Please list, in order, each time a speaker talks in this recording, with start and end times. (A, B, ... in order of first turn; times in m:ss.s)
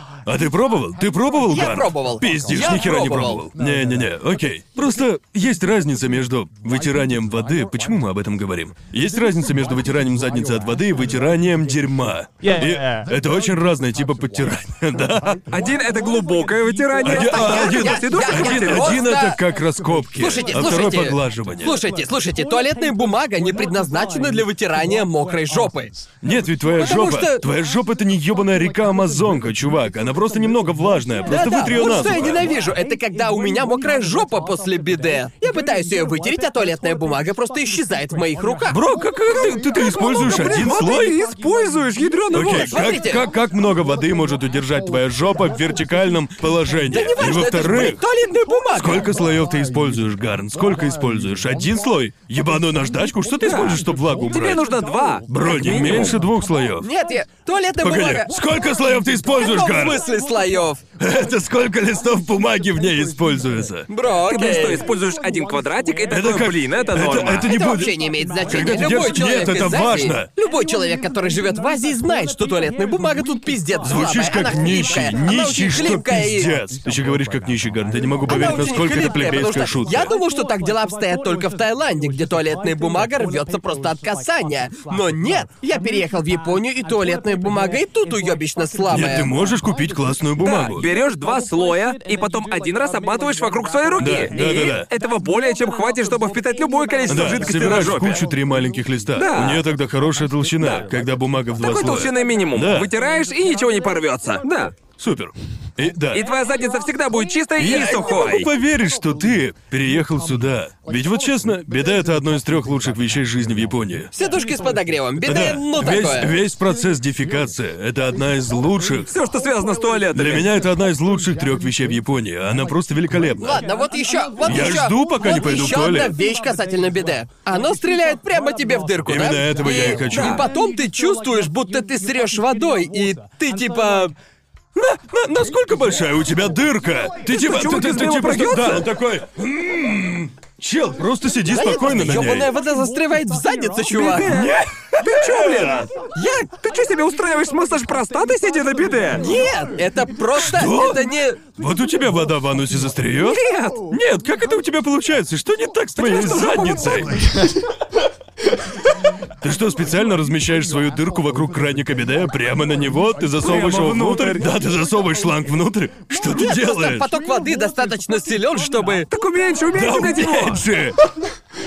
0:00.2-0:15.4 A
0:01.5-0:03.4 B
0:15.5-0:19.0 C
0:17.0-0:21.8 A
0:17.1-0:19.4 B
0:20.2-0:25.9 B
0:26.2-0:32.5 A
0:26.8-0:27.4 B
0:31.2-0:38.8 B
0:38.7-0:41.2 A
0:39.3-0:42.7 C
0:42.3-0:48.0 A
0:42.4-0:43.2 B
0:46.9-0:49.1 B
0:48.7-0:54.7 A
0:53.4-0:56.2 C
0:55.3-0:56.9 A
0:56.8-0:58.4 B
0:57.8-1:00.0 A
0:59.3-1:00.8 B
1:01.0-1:03.9 A
1:03.9-1:04.8 B
1:04.2-1:07.5 C
1:06.1-1:10.3 A
1:07.3-1:16.5 B
1:13.8-1:20.1 A
1:18.2-1:29.3 B
1:28.9-1:30.8 A
1:30.4-1:38.2 C
1:34.0-1:34.9 A
1:37.1-1:42.9 A
1:39.1-1:39.6 C
1:40.6-1:40.8 C
1:41.6-1:44.7 C
1:45.0-1:46.2 A
1:46.1-1:48.5 C
1:47.6-1:54.1 A
1:54.1-1:56.3 B
1:55.2-1:59.1 A
1:59.1-2:00.5 C
2:00.1-2:03.6 A
2:03.4-2:14.1 B
2:04.4-2:06.2 A
2:09.1-2:10.4 A
2:10.1-2:10.4 C
2:14.8-2:22.5 A
2:17.3-2:18.9 C
2:21.5-2:24.4 B
2:23.9-2:25.8 C
2:24.3-2:25.9 A
2:26.1-2:26.5 B
2:26.6-2:29.2 C
2:29.1-2:31.4 B
2:30.3-2:37.4 A
2:33.2-2:33.9 C
2:36.0-2:37.1 C
2:36.4-2:36.8 B
2:39.4-2:47.1 A
2:43.4-2:44.5 C
2:46.3-2:49.1 B
2:49.1-2:50.6 C
2:49.7-2:51.0 A